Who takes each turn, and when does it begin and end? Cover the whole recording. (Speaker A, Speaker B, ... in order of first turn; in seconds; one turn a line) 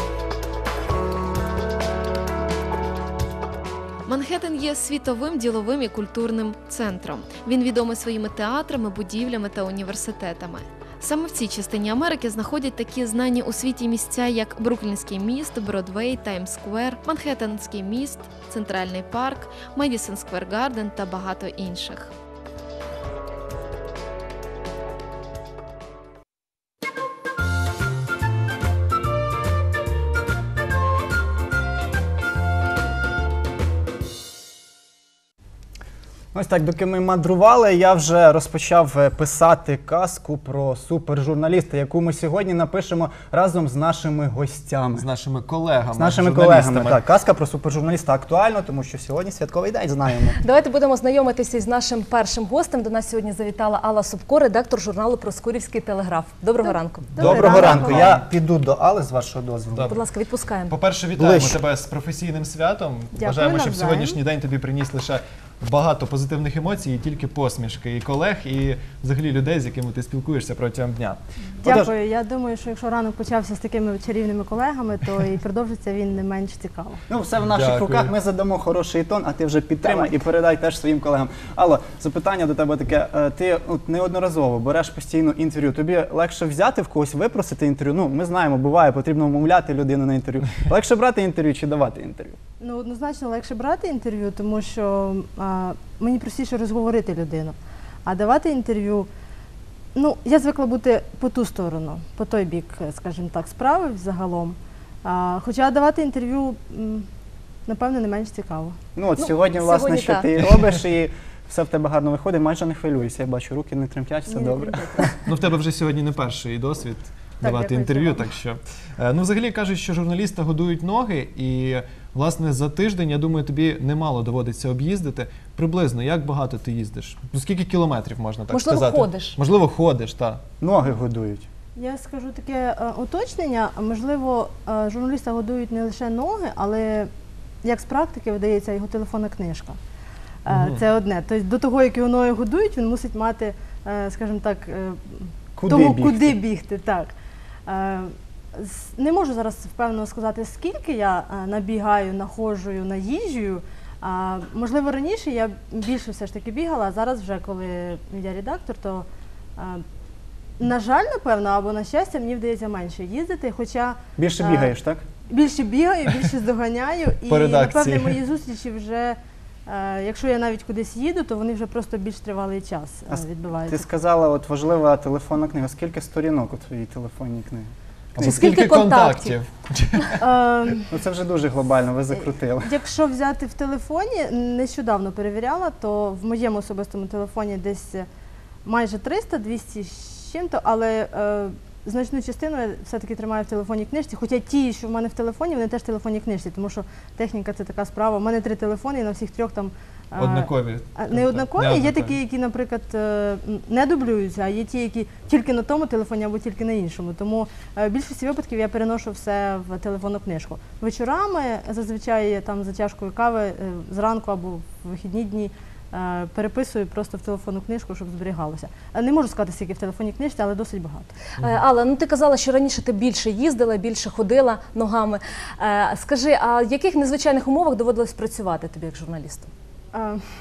Speaker A: 4.1-22.1
Speaker B: 36.3-45.1
Speaker C: 45.0-47.0
Speaker B: 46.0-50.4
Speaker D: 50.4-57.1
Speaker E: 56.6-58.1
Speaker C: 57.2-58.3
Speaker B: 57.2-60.0
Speaker C: 59.7-60.0
Speaker D: 59.9-60.8
Speaker C: 60.7-71.9
Speaker B: 61.1-61.6
Speaker E: 63.2-64.2
Speaker E: 71.6-77.0
Speaker B: 77.1-92.4
Speaker C: 77.5-78.1
Speaker E: 92.6-99.1
Speaker E: 100.0-107.1
Speaker E: 107.7-108.8
Speaker B: 109.0-115.2
Speaker D: 109.2-110.3
Speaker C: 110.4-110.8
Speaker E: 114.3-115.2
Speaker C: 115.3-130.4
Speaker E: 117.4-118.3
Speaker D: 128.5-129.4
Speaker B: 130.6-131.5
Speaker E: 131.8-137.1
Speaker E: 137.6-139.8
Speaker E: 140.4-147.1
Speaker C: 140.5-140.8
Speaker B: 145.6-146.4
Speaker E: 147.7-159.1
Speaker E: 159.6-159.8
Speaker E: 160.6-164.7
Speaker B: 164.2-165.1
Speaker E: 165.3-173.8
Speaker C: 167.3-168.2
Speaker B: 173.1-178.6
Speaker C: 178.2-180.2
Speaker D: 178.2-179.4
Speaker E: 180.2-180.9
Speaker B: 180.9-182.8
Speaker E: 182.6-188.1
Speaker E: 188.7-221.1
Speaker C: 200.2-202.2
Speaker D: 221.4-229.5
Speaker E: 229.9-230.2